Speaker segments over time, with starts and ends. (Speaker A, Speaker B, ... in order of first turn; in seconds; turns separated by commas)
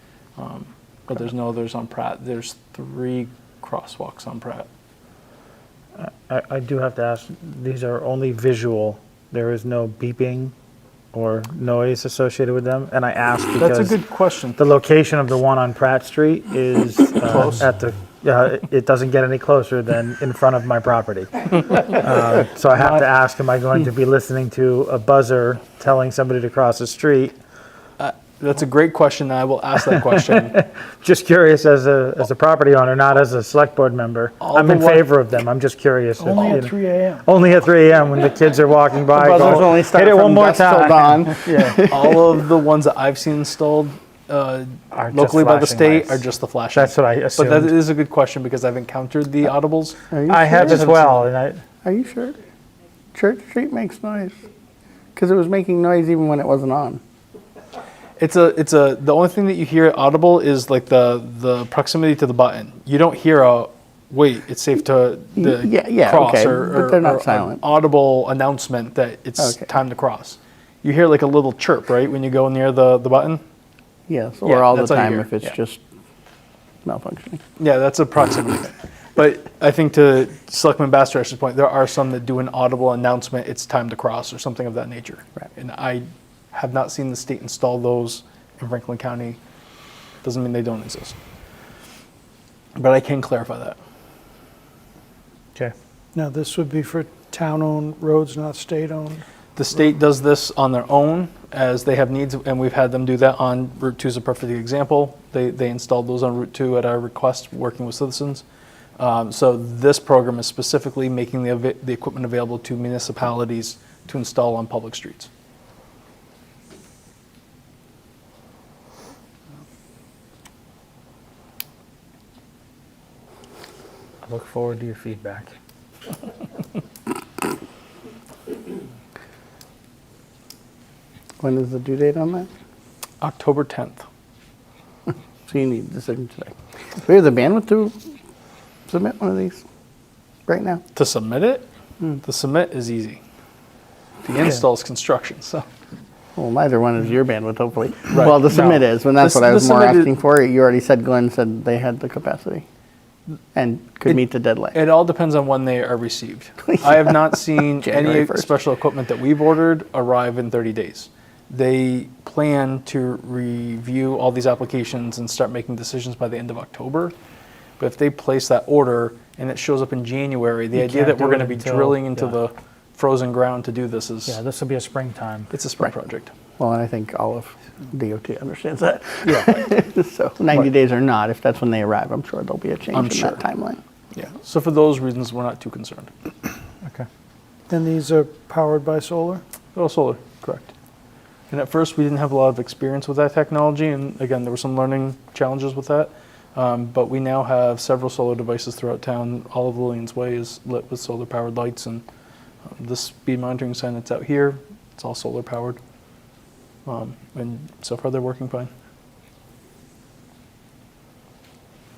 Speaker A: 0.4-4.7, Speaker B: 6.0-10.5, Speaker B: 11.1-14.0, Speaker A: 13.6-14.6, Speaker B: 14.6-27.4, Speaker A: 17.2-17.7, Speaker A: 28.0-30.6, Speaker B: 30.0-41.8, Speaker A: 34.4-35.1, Speaker C: 36.2-37.3, Speaker D: 39.1-42.4, Speaker A: 41.9-51.2, Speaker B: 44.9-47.8, Speaker D: 50.1-50.9, Speaker B: 50.3-51.6, Speaker D: 51.8-52.4, Speaker D: 53.1-54.4, Speaker D: 55.1-57.0, Speaker A: 58.2-73.4, Speaker D: 65.4-67.6, Speaker D: 69.4-69.7, Speaker D: 74.1-75.8, Speaker A: 74.5-75.4, Speaker D: 76.8-77.4, Speaker A: 77.6-89.4, Speaker A: 90.2-91.2, Speaker A: 92.8-93.8, Speaker C: 96.1-99.2, Speaker A: 99.6-108.4, Speaker A: 109.0-115.3, Speaker B: 124.2-125.5, Speaker D: 131.4-132.5, Speaker A: 133.2-134.1, Speaker D: 135.5-138.0, Speaker D: 138.9-139.6, Speaker D: 140.5-140.8, Speaker A: 140.9-141.7, Speaker A: 142.2-143.2, Speaker A: 144.2-145.7, Speaker D: 146.4-152.6, Speaker A: 148.1-150.1, Speaker D: 153.5-154.8, Speaker A: 154.7-167.2, Speaker D: 156.8-157.1, Speaker D: 157.8-158.5, Speaker A: 167.8-174.4, Speaker B: 170.8-172.4, Speaker B: 174.3-175.5, Speaker A: 175.5-176.3, Speaker D: 176.6-183.8, Speaker A: 182.9-183.4, Speaker A: 184.1-186.1, Speaker C: 187.7-189.4, Speaker A: 189.8-190.7, Speaker A: 191.5-202.0, Speaker A: 202.7-205.8, Speaker A: 206.9-208.7